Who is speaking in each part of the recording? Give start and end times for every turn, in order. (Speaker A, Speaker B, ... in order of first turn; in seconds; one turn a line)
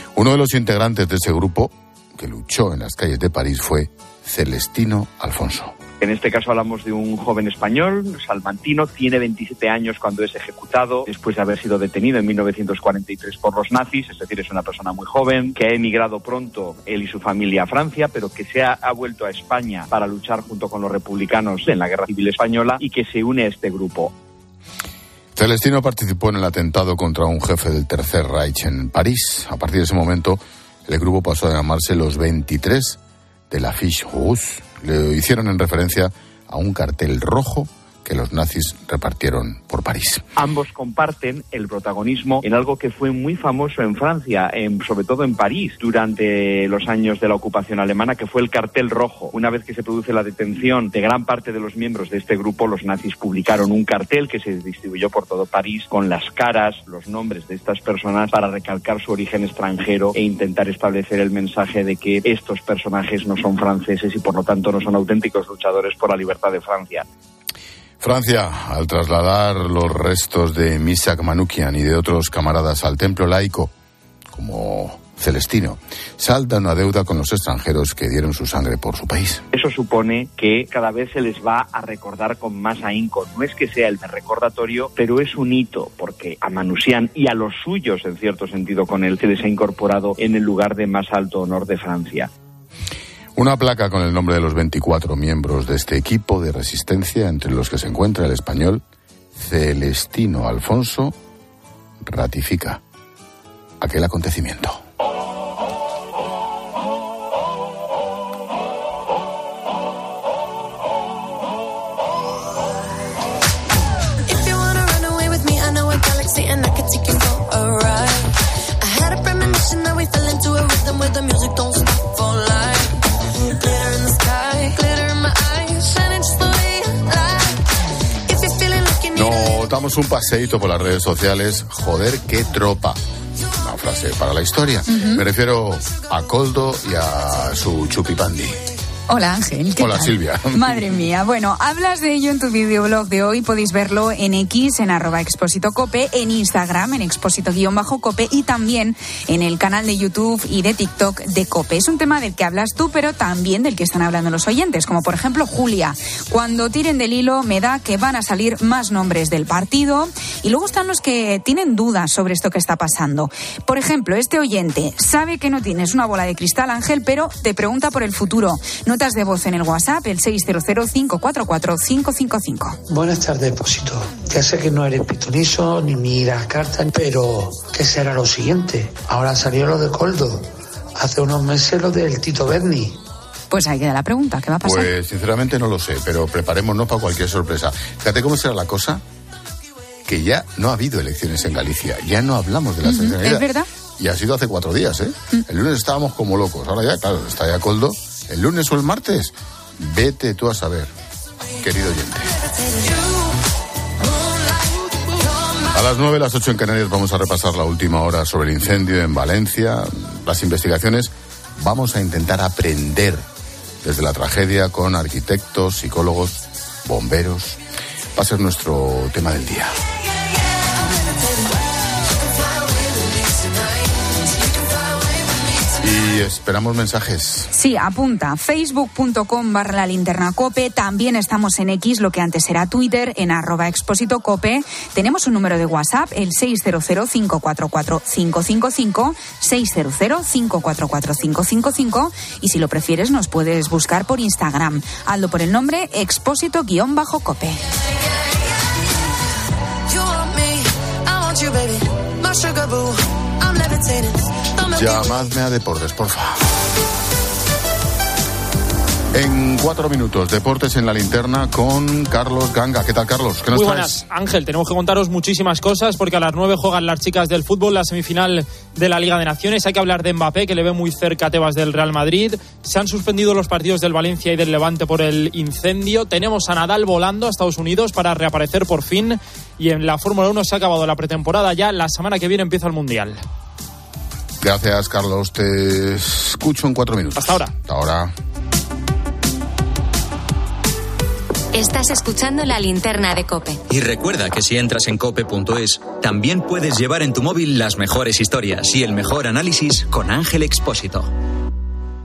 Speaker A: 0.1-5.8
Speaker B: 6.0-24.1
Speaker A: 25.4-33.0
Speaker A: 33.5-40.2
Speaker B: 40.4-67.0
Speaker A: 68.0-73.7
Speaker A: 74.3-79.4
Speaker B: 79.5-92.3
Speaker A: 93.4-98.8
Speaker A: 99.3-101.2
Speaker A: 102.0-102.8
Speaker A: 103.8-104.8
Speaker C: 114.3-123.0
Speaker C: 123.6-127.7
Speaker C: 128.3-129.6
Speaker A: 129.1-133.0
Speaker A: 133.6-138.6
Speaker D: 134.9-135.2
Speaker D: 139.1-172.8
Speaker A: 139.8-140.9
Speaker E: 172.9-183.0
Speaker D: 183.5-184.9
Speaker A: 184.6-189.0
Speaker A: 190.1-193.5
Speaker D: 192.8-193.7
Speaker A: 194.0-200.9
Speaker A: 201.6-202.3
Speaker C: 202.7-203.3
Speaker C: 204.1-205.7
Speaker A: 205.7-213.2
Speaker A: 213.8-217.6
Speaker A: 218.2-219.7
Speaker C: 222.6-223.6
Speaker A: 225.8-227.5
Speaker D: 227.5-247.6
Speaker C: 249.9-255.1
Speaker A: 254.7-256.4
Speaker A: 259.1-264.0
Speaker F: 263.5-283.2
Speaker A: 284.4-288.1
Speaker F: 287.2-287.5
Speaker G: 291.5-293.6
Speaker H: 293.7-301.1